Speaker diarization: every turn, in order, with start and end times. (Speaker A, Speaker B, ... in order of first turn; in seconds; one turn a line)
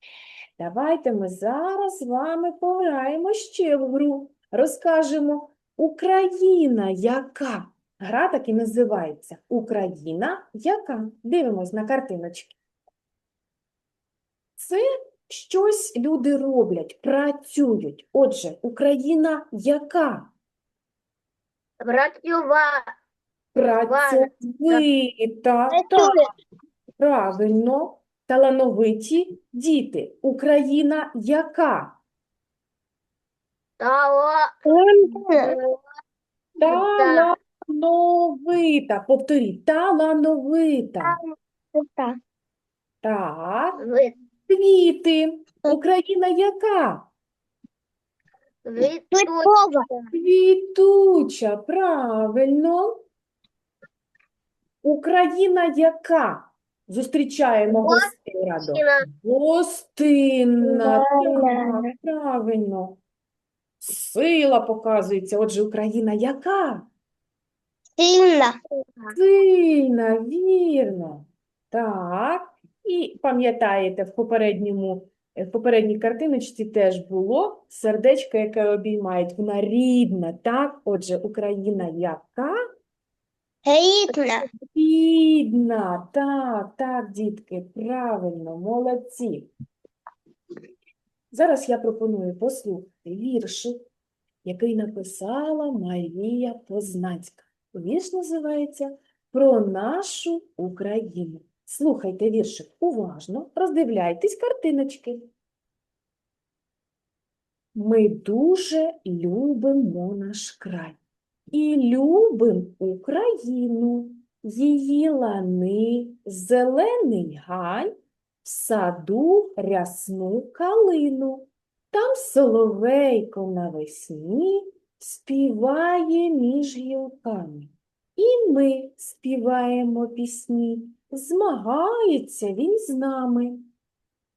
Speaker A: 0.6-12.6
Speaker A: 14.6-20.3
Speaker B: 21.8-22.9
Speaker A: 23.5-26.2
Speaker B: 23.9-24.8
Speaker C: 25.7-26.3
Speaker A: 27.0-32.0
Speaker B: 33.8-34.5
Speaker C: 34.7-35.6
Speaker B: 35.3-35.8
Speaker A: 36.6-41.2
Speaker B: 36.6-37.3
Speaker C: 41.0-42.2
Speaker A: 43.0-43.8
Speaker B: 43.8-44.1
Speaker A: 44.5-47.1
Speaker B: 48.6-50.1
Speaker C: 49.1-49.9
Speaker A: 50.1-52.9
Speaker A: 54.8-63.0
Speaker B: 57.7-58.1
Speaker B: 58.6-59.1
Speaker C: 60.6-61.9
Speaker A: 63.8-66.9
Speaker C: 68.0-68.5
Speaker A: 69.1-82.5
Speaker C: 83.7-84.5
Speaker A: 84.7-89.5
Speaker A: 91.3-93.8
Speaker A: 94.5-105.3
Speaker A: 107.8-111.0
Speaker A: 111.5-117.9
Speaker A: 118.4-133.7